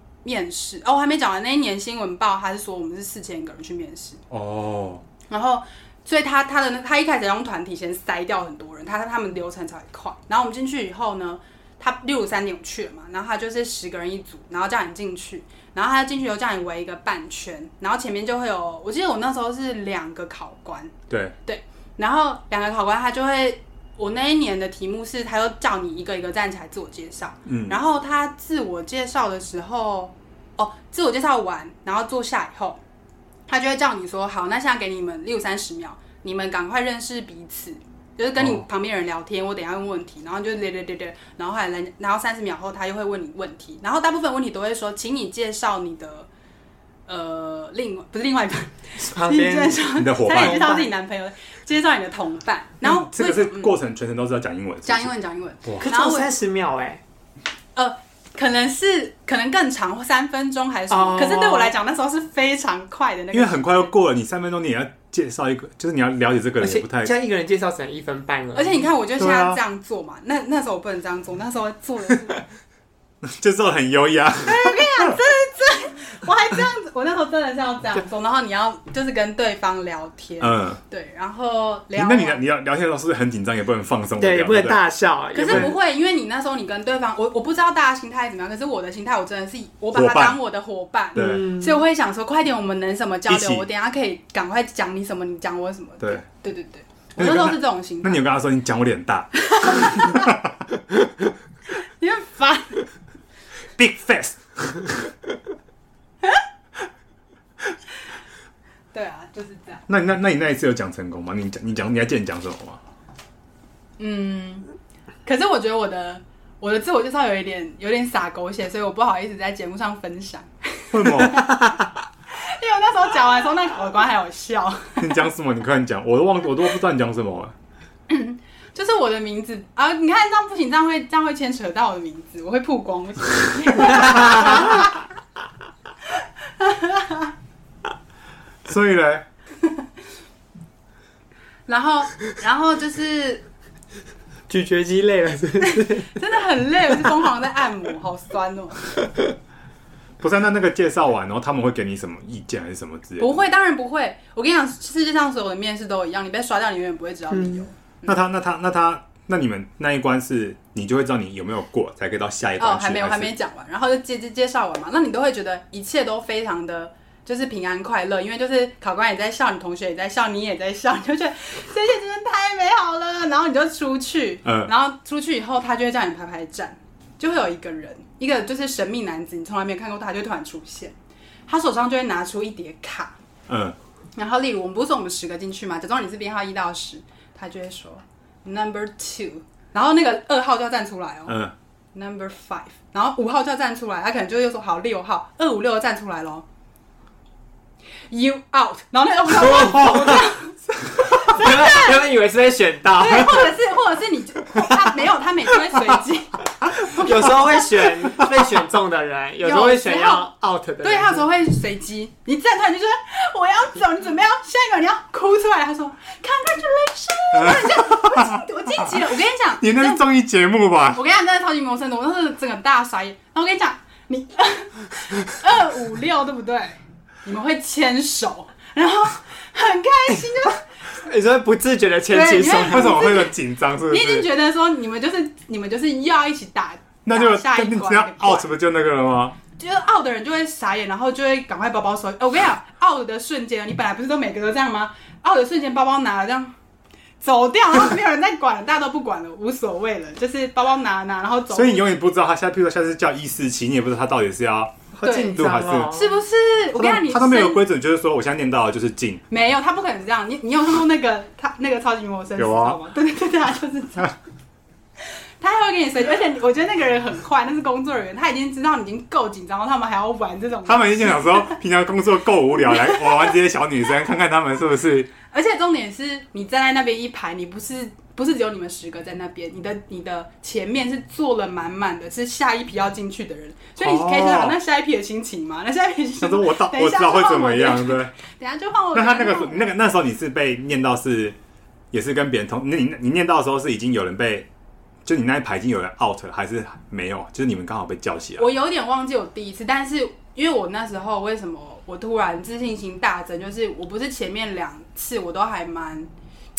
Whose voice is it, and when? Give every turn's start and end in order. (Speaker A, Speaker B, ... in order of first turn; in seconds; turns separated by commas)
Speaker A: 0.2-4.2, Speaker B: 4.3-5.0, Speaker A: 5.3-20.9, Speaker B: 21.1-21.4, Speaker A: 21.4-32.8, Speaker B: 27.5-27.8, Speaker A: 33.5-46.3, Speaker B: 38.4-38.7, Speaker A: 47.1-53.7, Speaker C: 49.0-50.9, Speaker B: 50.0-50.8, Speaker B: 52.8-55.1, Speaker A: 54.9-56.3, Speaker C: 55.8-57.0, Speaker A: 57.8-63.9, Speaker C: 60.9-61.7, Speaker B: 63.3-67.2, Speaker C: 66.6-68.9, Speaker A: 68.5-72.4, Speaker B: 69.2-69.6, Speaker B: 73.2-75.2, Speaker A: 74.4-82.4, Speaker B: 80.4-80.8, Speaker B: 82.0-84.8, Speaker C: 84.2-85.7, Speaker A: 85.3-98.2, Speaker B: 85.5-85.7, Speaker B: 89.9-90.4, Speaker B: 91.2-91.5, Speaker C: 91.2-91.8, Speaker B: 93.3-93.7, Speaker B: 97.2-100.5, Speaker A: 99.4-100.3, Speaker A: 101.8-102.8, Speaker B: 103.8-105.0, Speaker A: 108.9-109.8, Speaker B: 109.9-112.8, Speaker A: 114.0-114.7, Speaker A: 115.2-121.8, Speaker B: 120.9-121.5, Speaker A: 122.3-125.2, Speaker B: 125.0-127.5, Speaker A: 128.1-134.9, Speaker C: 134.1-134.6, Speaker A: 136.6-137.3, Speaker B: 138.7-139.3, Speaker A: 141.7-143.4, Speaker C: 144.5-146.2, Speaker A: 145.6-148.9, Speaker B: 150.2-153.4, Speaker A: 153.2-158.2, Speaker C: 157.3-157.7, Speaker B: 158.1-163.3, Speaker A: 162.6-180.9, Speaker B: 174.4-174.7, Speaker A: 181.5-183.2, Speaker B: 183.5-183.8, Speaker A: 184.2-191.4, Speaker B: 191.3-191.5, Speaker A: 191.9-196.4, Speaker A: 198.1-202.1, Speaker C: 199.4-200.3, Speaker C: 201.1-203.6, Speaker A: 203.0-207.6, Speaker C: 206.8-211.3, Speaker A: 209.4-210.3, Speaker A: 210.8-220.1, Speaker B: 217.3-219.0, Speaker B: 219.6-221.0, Speaker A: 220.9-230.6, Speaker C: 230.1-233.0, Speaker A: 232.1-238.5, Speaker B: 232.6-234.3, Speaker B: 237.1-239.4, Speaker A: 239.6-246.5, Speaker A: 247.2-251.9, Speaker B: 251.5-256.0, Speaker C: 254.9-256.2, Speaker A: 255.0-257.6, Speaker B: 256.7-259.2, Speaker A: 259.3-264.1, Speaker B: 262.4-262.8, Speaker A: 265.4-271.6, Speaker B: 270.7-275.1, Speaker A: 275.3-289.7, Speaker B: 283.8-284.6, Speaker B: 286.2-288.1, Speaker B: 288.9-291.4, Speaker B: 291.9-294.5, Speaker B: 295.1-298.5, Speaker A: 298.4-306.1